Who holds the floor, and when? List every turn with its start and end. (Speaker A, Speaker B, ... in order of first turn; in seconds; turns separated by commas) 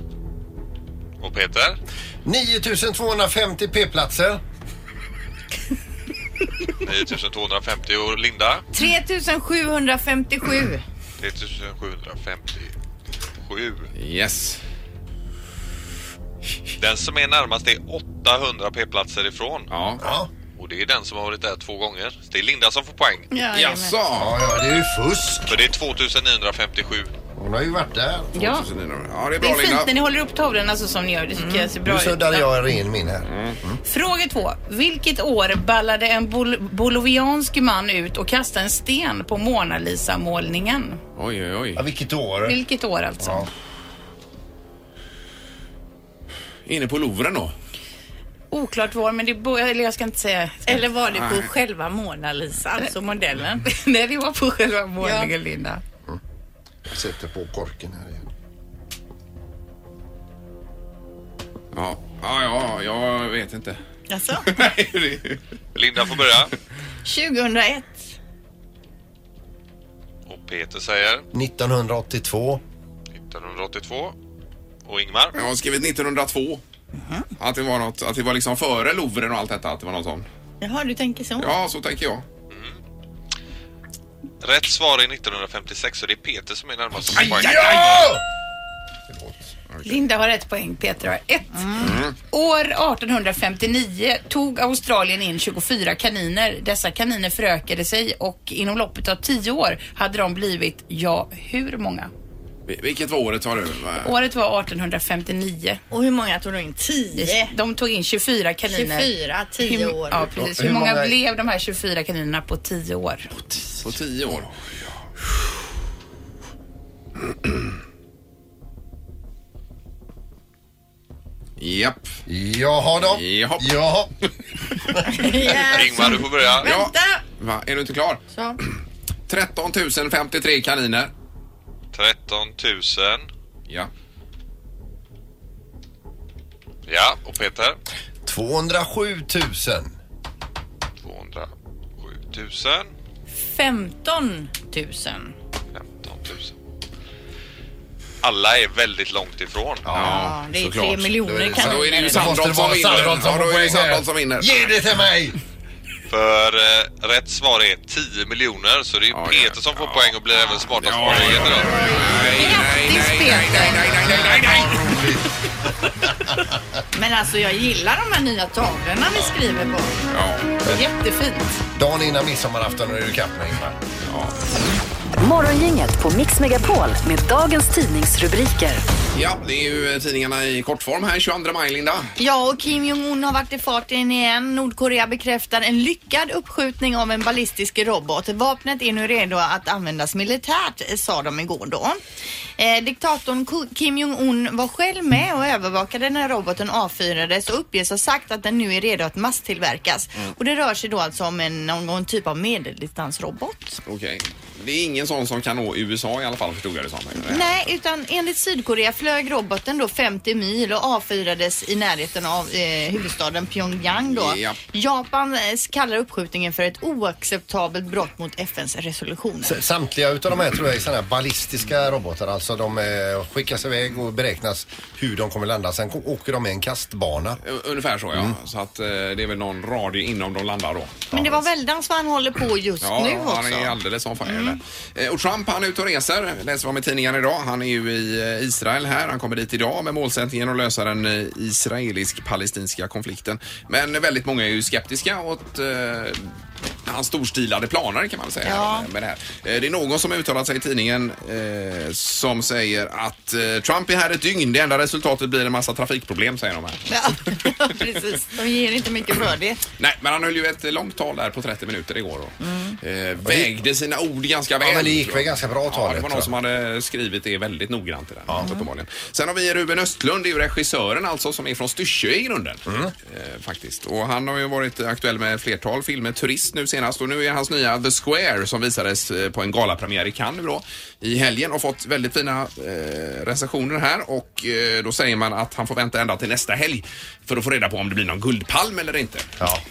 Speaker A: 1.2-1.8, Speaker B: 2.3-4.4, Speaker A: 6.8-8.6, Speaker C: 8.7-10.8, Speaker A: 11.2-12.7, Speaker A: 13.4-13.9, Speaker D: 13.9-14.6, Speaker A: 16.8-19.7, Speaker D: 19.7-20.0, Speaker B: 20.0-20.3, Speaker A: 20.6-23.3, Speaker C: 23.3-23.9, Speaker D: 23.5-24.4, Speaker B: 24.1-25.5, Speaker A: 25.5-27.1, Speaker B: 27.4-28.3, Speaker D: 28.4-29.9, Speaker E: 28.4-28.6, Speaker E: 29.4-32.5, Speaker C: 31.4-31.8, Speaker B: 31.8-33.8, Speaker D: 33.3-33.6, Speaker E: 33.9-41.0, Speaker D: 41.2-41.8, Speaker B: 41.8-42.6, Speaker E: 42.5-43.5, Speaker B: 43.2-43.5, Speaker D: 46.7-47.5, Speaker E: 48.5-50.9, Speaker C: 50.7-53.6, Speaker D: 51.1-51.5, Speaker E: 53.6-55.8, Speaker C: 55.0-55.3, Speaker B: 56.9-58.3, Speaker D: 61.7-63.8, Speaker C: 64.1-64.5, Speaker D: 64.5-65.4, Speaker A: 65.8-66.5, Speaker C: 67.0-68.1, Speaker A: 70.3-71.3, Speaker B: 71.3-72.6, Speaker A: 73.2-74.2, Speaker A: 74.8-75.4, Speaker D: 75.3-76.6, Speaker D: 77.4-80.3, Speaker C: 80.6-81.5, Speaker D: 81.4-82.2, Speaker A: 84.4-87.7, Speaker D: 87.1-88.2, Speaker B: 87.1-88.2, Speaker B: 89.1-89.3, Speaker E: 89.8-102.1, Speaker C: 91.5-92.0, Speaker D: 91.8-92.2, Speaker D: 102.7-104.1, Speaker E: 104.0-105.8, Speaker C: 105.9-107.5, Speaker E: 107.2-109.1, Speaker C: 108.7-110.2, Speaker E: 109.6-113.3, Speaker B: 110.2-111.2, Speaker D: 113.8-114.5, Speaker D: 121.6-122.1, Speaker B: 122.3-124.1, Speaker D: 123.1-123.8, Speaker C: 125.0-127.2, Speaker A: 125.7-126.7, Speaker D: 126.6-128.7, Speaker C: 128.3-128.6, Speaker D: 129.3-131.1, Speaker A: 131.9-133.3, Speaker A: 136.9-137.8, Speaker B: 138.3-139.9, Speaker A: 141.0-142.9, Speaker C: 143.4-145.3, Speaker A: 145.8-146.5, Speaker A: 148.2-149.9, Speaker B: 149.8-150.2, Speaker D: 149.9-154.7, Speaker C: 150.0-152.4, Speaker B: 151.2-155.4, Speaker A: 156.1-161.7, Speaker D: 159.1-160.2, Speaker C: 160.3-163.8, Speaker D: 160.8-165.1, Speaker E: 162.4-163.8, Speaker B: 163.9-165.3, Speaker C: 166.9-170.0, Speaker D: 170.1-170.6, Speaker E: 170.7-171.4, Speaker B: 171.8-173.8, Speaker D: 174.1-174.3, Speaker F: 175.2-178.8, Speaker D: 179.1-182.1, Speaker C: 182.2-192.0, Speaker C: 192.6-203.8, Speaker D: 203.9-207.7, Speaker C: 207.2-219.6, Speaker D: 214.1-214.6, Speaker B: 219.4-227.4, Speaker D: 227.4-231.2, Speaker C: 231.1-234.6, Speaker D: 232.8-256.8, Speaker C: 248.4-248.9, Speaker C: 256.9-259.6, Speaker D: 259.8-289.3, Speaker C: 262.4-262.8, Speaker B: 263.2-263.5, Speaker B: 264.6-266.3, Speaker B: 272.7-272.9